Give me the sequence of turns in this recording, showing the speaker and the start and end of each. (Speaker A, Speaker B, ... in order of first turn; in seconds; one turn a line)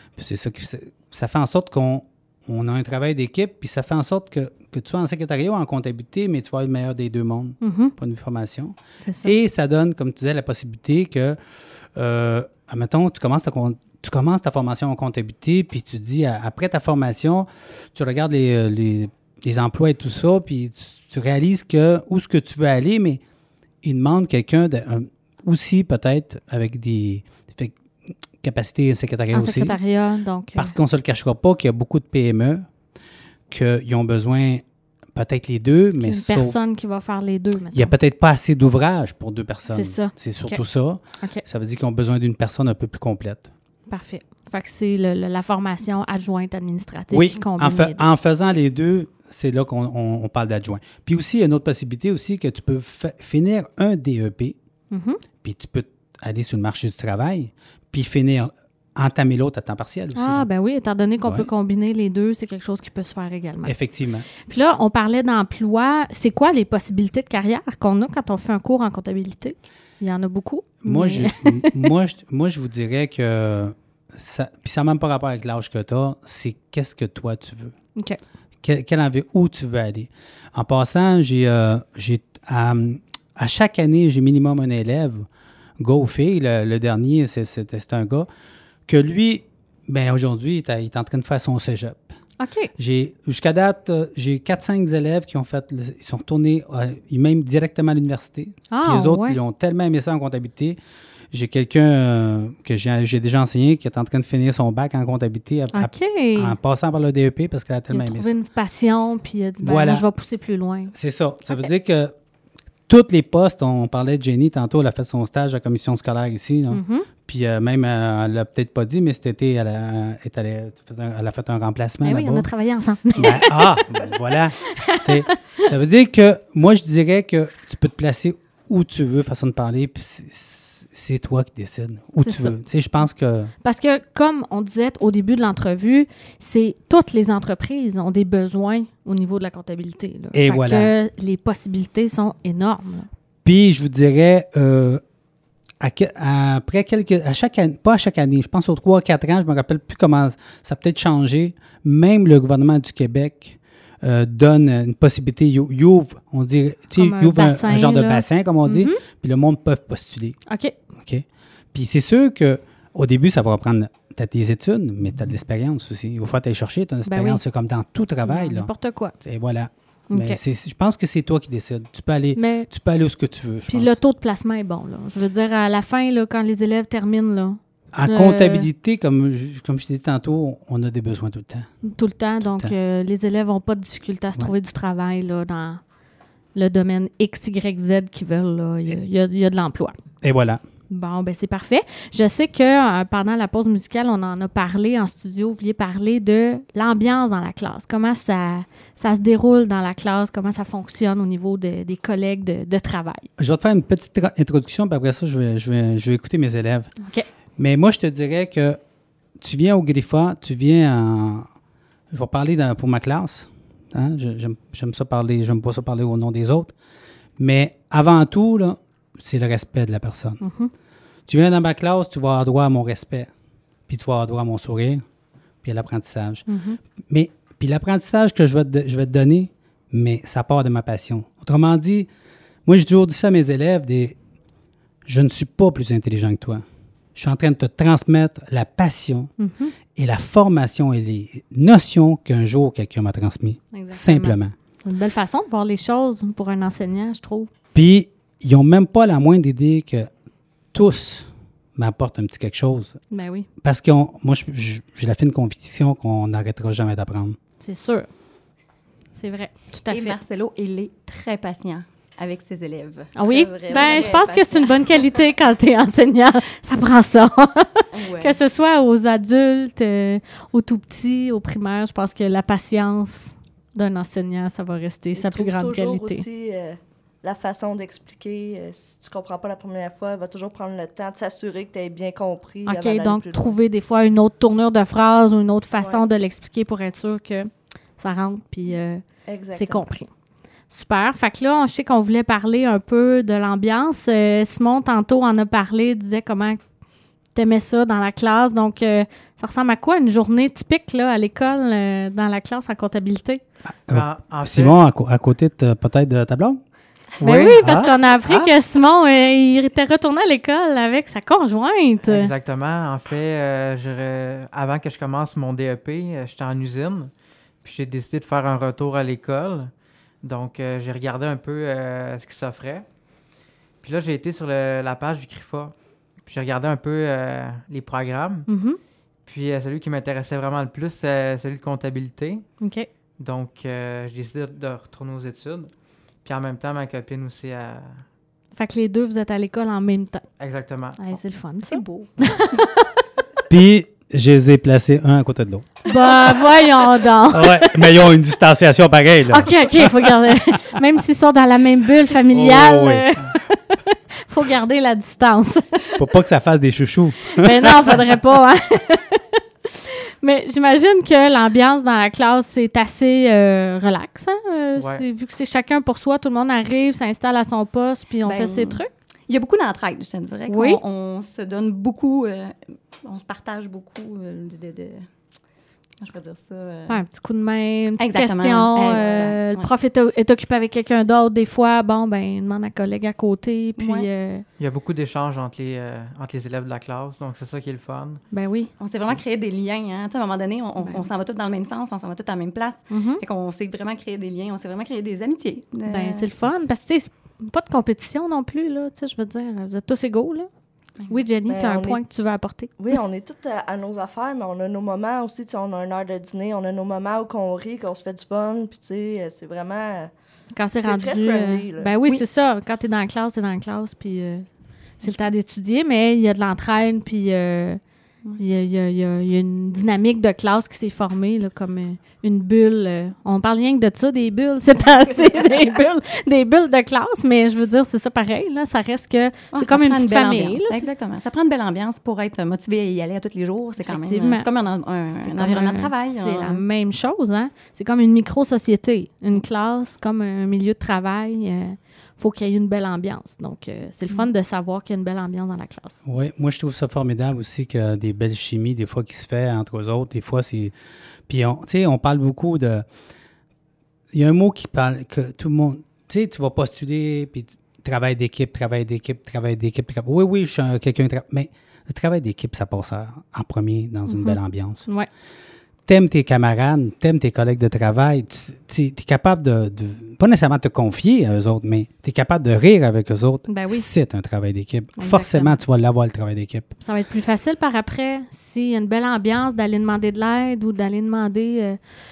Speaker A: 0.2-11.4
Speaker B: 7.6-7.9
Speaker B: 9.0-9.3
Speaker A: 11.9-23.2
Speaker A: 23.8-27.8
Speaker A: 28.4-29.8
Speaker B: 29.3-30.7
Speaker A: 30.6-32.7
Speaker A: 33.5-34.6
Speaker A: 35.1-36.6
Speaker B: 36.0-37.9
Speaker A: 37.7-43.5
Speaker B: 39.7-40.6
Speaker B: 43.9-48.1
Speaker A: 47.1-54.6
Speaker B: 54.9-55.2
Speaker A: 55.4-60.5
Speaker B: 60.1-63.7
Speaker A: 63.6-64.3
Speaker B: 64.5-71.9
Speaker A: 70.8-77.8
Speaker A: 78.6-85.3
Speaker A: 85.8-88.3
Speaker A: 88.9-92.1
Speaker B: 92.4-92.7
Speaker A: 92.8-100.8
Speaker B: 98.7-99.4
Speaker A: 101.3-108.3
Speaker B: 105.7-106.6
Speaker B: 107.9-110.9
Speaker A: 109.6-110.1
Speaker A: 110.9-112.1
Speaker A: 112.9-122.5
Speaker B: 116.7-117.1
Speaker B: 122.0-124.1
Speaker A: 123.2-133.5
Speaker B: 124.7-125.7
Speaker B: 132.2-132.6
Speaker B: 133.6-143.1
Speaker A: 140.3-140.9
Speaker A: 143.4-145.0
Speaker A: 145.8-160.4
Speaker B: 157.0-159.0
Speaker B: 160.5-160.8
Speaker A: 161.0-168.7
Speaker B: 167.1-167.4
Speaker B: 168.2-169.2
Speaker A: 169.2-174.0
Speaker B: 170.1-170.4
Speaker B: 172.4-172.7
Speaker B: 173.7-178.7
Speaker A: 177.9-181.7
Speaker B: 181.8-185.8
Speaker A: 182.4-182.7
Speaker B: 186.6-189.9
Speaker A: 190.2-190.6
Speaker B: 190.9-203.3
Speaker A: 203.4-206.9
Speaker A: 207.6-208.8
Speaker A: 209.4-211.5
Speaker A: 212.1-216.7
Speaker A: 217.4-220.4
Speaker B: 220.4-220.7
Speaker A: 221.3-223.3
Speaker A: 223.9-225.0
Speaker A: 225.6-226.4
Speaker B: 226.5-226.8
Speaker A: 227.1-232.1
Speaker A: 232.7-234.2
Speaker A: 235.1-239.3
Speaker B: 239.4-239.7
Speaker A: 239.9-244.5
Speaker B: 243.7-247.5
Speaker A: 247.7-250.1
Speaker A: 250.7-253.0
Speaker B: 253.1-253.5
Speaker A: 253.6-257.4
Speaker B: 257.6-258.1
Speaker B: 259.1-260.2
Speaker C: 259.9-264.4
Speaker B: 263.1-276.2
Speaker D: 263.3-264.7
Speaker C: 267.9-268.4
Speaker D: 275.1-283.5
Speaker B: 282.7-289.0
Speaker D: 289.3-289.9
Speaker B: 289.5-290.1
Speaker B: 290.7-296.6
Speaker B: 297.4-303.4
Speaker A: 303.9-306.6
Speaker E: 303.9-304.8
Speaker B: 307.2-312.3
Speaker E: 307.2-307.6
Speaker A: 307.3-308.5
Speaker E: 312.0-317.1
Speaker E: 317.6-319.7
Speaker E: 320.2-322.9
Speaker E: 323.8-328.5
Speaker B: 328.5-328.8
Speaker E: 329.3-332.4
Speaker B: 332.6-332.9
Speaker E: 333.2-335.7
Speaker E: 336.2-338.0
Speaker B: 338.6-340.2
Speaker E: 340.4-341.0
Speaker B: 341.0-342.9
Speaker C: 341.7-342.6
Speaker A: 343.5-345.7
Speaker B: 345.9-347.9
Speaker A: 347.3-350.3
Speaker B: 349.3-355.9
Speaker A: 352.3-353.2
Speaker A: 356.0-358.0
Speaker B: 357.4-368.9
Speaker E: 364.8-365.1
Speaker C: 368.2-375.1
Speaker B: 370.5-370.8
Speaker C: 376.0-377.0
Speaker B: 376.9-384.4
Speaker C: 378.0-379.7
Speaker C: 383.8-384.1
Speaker E: 384.6-388.2
Speaker B: 388.3-388.7
Speaker C: 388.8-396.3
Speaker B: 390.8-391.1
Speaker B: 392.9-393.2
Speaker B: 395.9-400.5
Speaker B: 401.1-402.7
Speaker D: 401.5-402.0
Speaker D: 402.8-410.1
Speaker B: 410.5-414.5
Speaker D: 410.8-412.0
Speaker B: 415.0-417.8
Speaker B: 418.4-430.9
Speaker C: 429.5-436.6
Speaker B: 433.9-434.5
Speaker B: 435.1-446.0
Speaker A: 446.1-450.7
Speaker A: 451.3-452.9
Speaker A: 454.1-464.8
Speaker B: 464.1-465.1
Speaker A: 465.9-476.7
Speaker B: 473.5-473.9
Speaker B: 475.0-475.6
Speaker B: 476.8-481.8